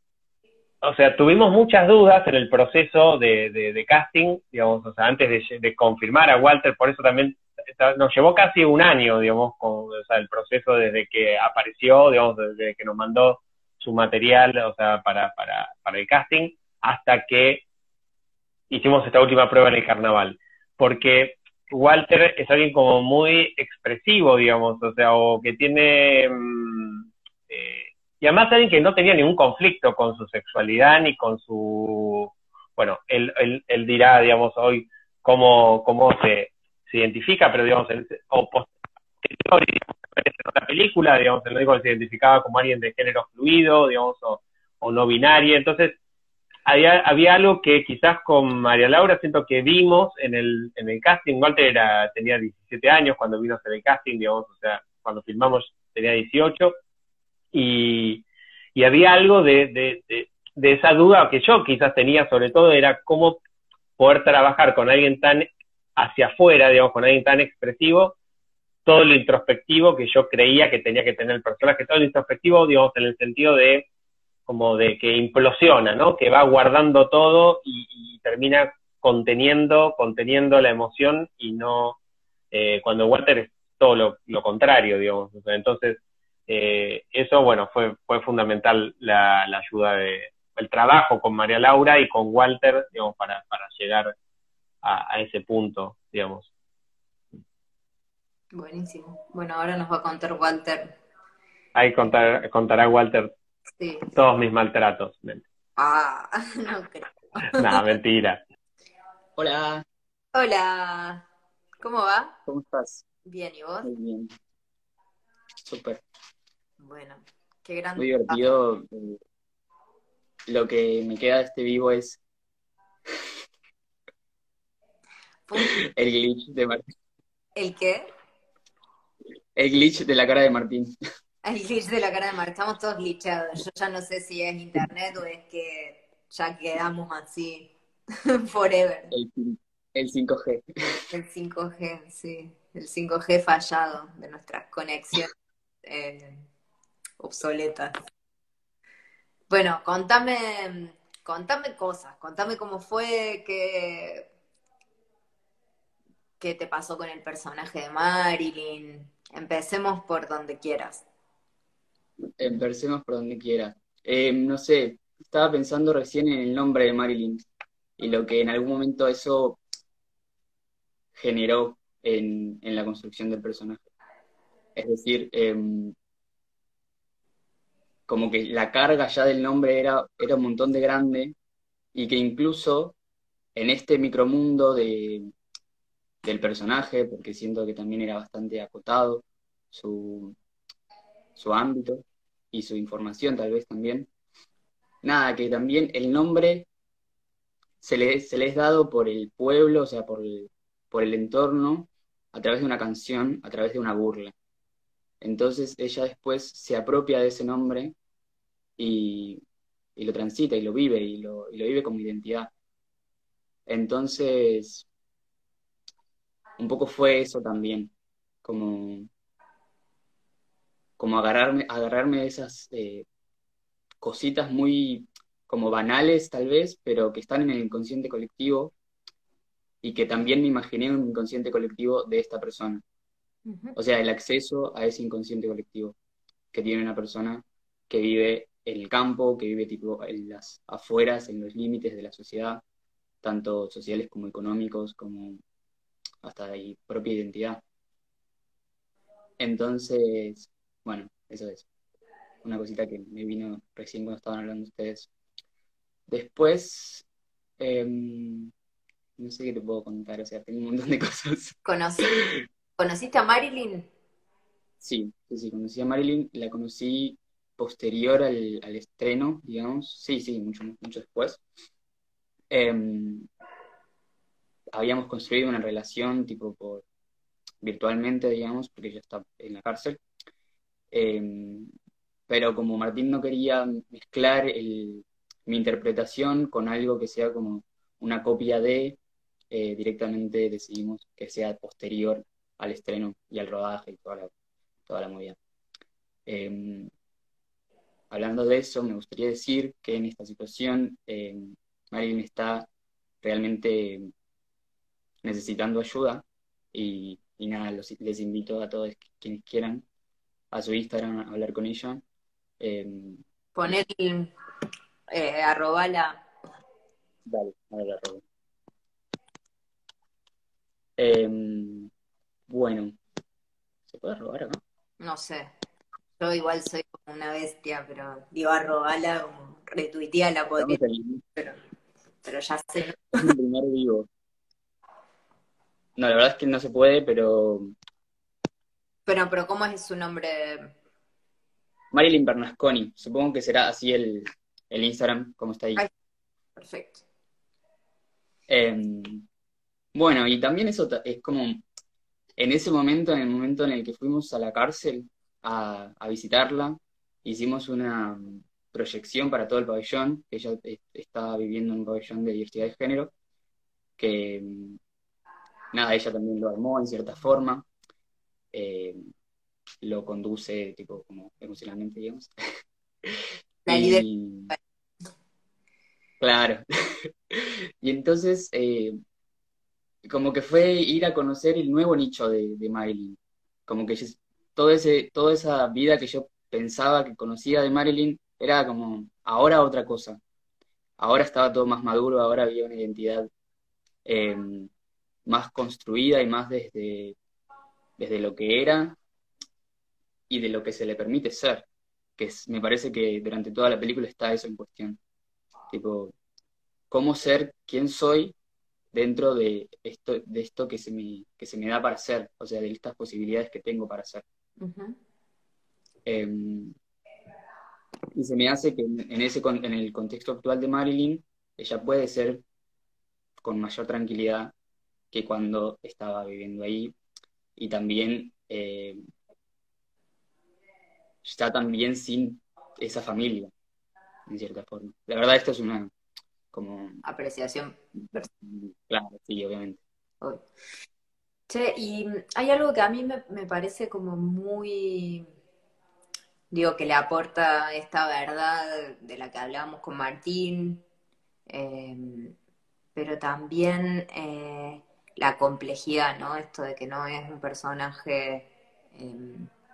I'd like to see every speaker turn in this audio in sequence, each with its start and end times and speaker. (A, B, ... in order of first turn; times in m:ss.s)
0:00.8-0:17.6 A
0:18.7-0:38.7 A
0:39.2-0:46.0 A
0:46.7-0:56.8 A
0:57.5-0:58.2 A
0:58.8-1:03.4 A
1:04.0-1:08.2 A
1:08.9-1:13.9 A
1:14.5-1:22.0 A
1:22.5-1:34.1 A
1:34.8-1:36.5 A
1:38.5-1:40.9 B
1:41.8-1:43.3 A
1:43.8-1:44.1 B
1:44.2-1:45.4 A
1:45.8-1:47.8 B
1:47.6-1:48.4 A
1:49.4-1:49.8 C
1:50.3-1:51.2 B
1:51.8-1:52.4 B
1:52.5-1:53.0 C
1:53.2-1:53.9 B
1:53.8-1:54.3 C
1:55.7-1:56.0 C
1:56.8-1:58.5 B
1:58.0-1:59.2 C
2:00.5-2:02.2 C
2:05.5-2:05.8 B
2:05.6-2:06.8 C
2:07.6-2:08.1 B
2:09.6-2:11.0 C
2:11.4-2:17.7 B
2:18.2-2:19.1 B
2:19.1-2:20.7 C
2:21.1-2:25.3 B
2:25.8-2:26.5 B
2:27.2-2:27.9 B
2:29.5-2:34.3 B
2:36.4-2:41.0 B
2:42.4-2:47.4 C
2:48.0-2:49.6 C
2:51.2-2:53.8 C
2:54.8-2:56.0 C
2:58.1-3:01.4 C
3:02.0-3:03.0 C
3:03.6-3:05.3 C
3:06.2-3:10.4 C
3:11.4-3:14.1 C
3:15.0-3:16.7 C
3:17.8-3:24.3 C
3:25.2-3:28.0 C
3:28.8-3:29.4 C
3:30.0-3:32.5 C
3:33.7-3:34.9 C
3:36.6-3:37.9 C
3:38.4-3:39.1 C
3:41.0-3:43.0 C
3:44.0-3:48.7 C
3:49.8-3:52.8 C
3:53.5-3:53.8 B
3:53.8-3:56.0 C
3:56.5-4:02.6 C
4:03.2-4:05.4 C
4:06.2-4:07.6 C
4:09.4-4:11.7 C
4:12.4-4:15.1 C
4:16.1-4:17.0 C
4:17.6-4:18.5 C
4:19.2-4:22.4 C
4:21.6-4:23.9 B
4:24.8-4:31.4 C
4:32.5-4:33.3 C
4:34.7-4:36.8 C
4:37.6-4:40.0 C
4:40.9-4:41.7 C
4:42.3-4:49.0 C
4:49.5-4:54.3 C
4:54.9-4:55.4 C
4:56.3-4:56.9 C
4:58.1-5:02.7 C
5:03.2-5:04.1 C
5:05.2-5:09.8 C
5:10.5-5:12.0 C
5:12.6-5:13.2 C
5:13.6-5:14.3 B
5:15.1-5:16.2 B
5:17.3-5:18.2 C
5:21.0-5:21.9 C
5:22.5-5:23.0 C
5:23.9-5:24.6 C
5:25.0-5:25.5 B
5:26.2-5:30.8 B
5:30.6-5:31.2 C
5:32.2-5:33.2 B
5:33.1-5:34.1 C
5:36.0-5:37.7 C
5:39.1-5:40.7 B
5:41.9-5:45.8 C
5:46.6-5:47.0 B
5:48.5-5:49.3 C
5:49.9-5:51.6 C
5:52.4-6:03.1 C
6:04.0-6:04.8 C
6:05.7-6:07.7 C
6:08.5-6:09.1 C
6:09.8-6:12.3 C
6:13.0-6:14.5 C
6:13.7-6:14.6 B
6:16.2-6:19.0 C
6:20.0-6:30.2 C
6:31.0-6:33.3 C
6:34.0-6:34.7 C
6:35.3-6:37.2 C
6:38.0-6:39.0 C
6:40.3-6:41.7 C
6:42.2-6:45.0 C
6:45.7-6:46.1 C
6:46.9-6:48.4 C
6:48.9-6:54.2 C
6:54.6-6:55.0 B
6:56.0-6:56.8 C
6:58.1-7:02.4 C
7:03.4-7:04.5 C
7:05.1-7:06.9 C
7:07.6-7:09.1 C
7:11.2-7:13.5 C
7:14.3-7:15.9 C
7:16.5-7:17.0 C
7:17.0-7:18.2 B
7:18.2-7:19.8 C
7:21.5-7:25.3 B
7:26.5-7:30.8 B
7:31.5-7:32.4 B
7:33.0-7:39.5 B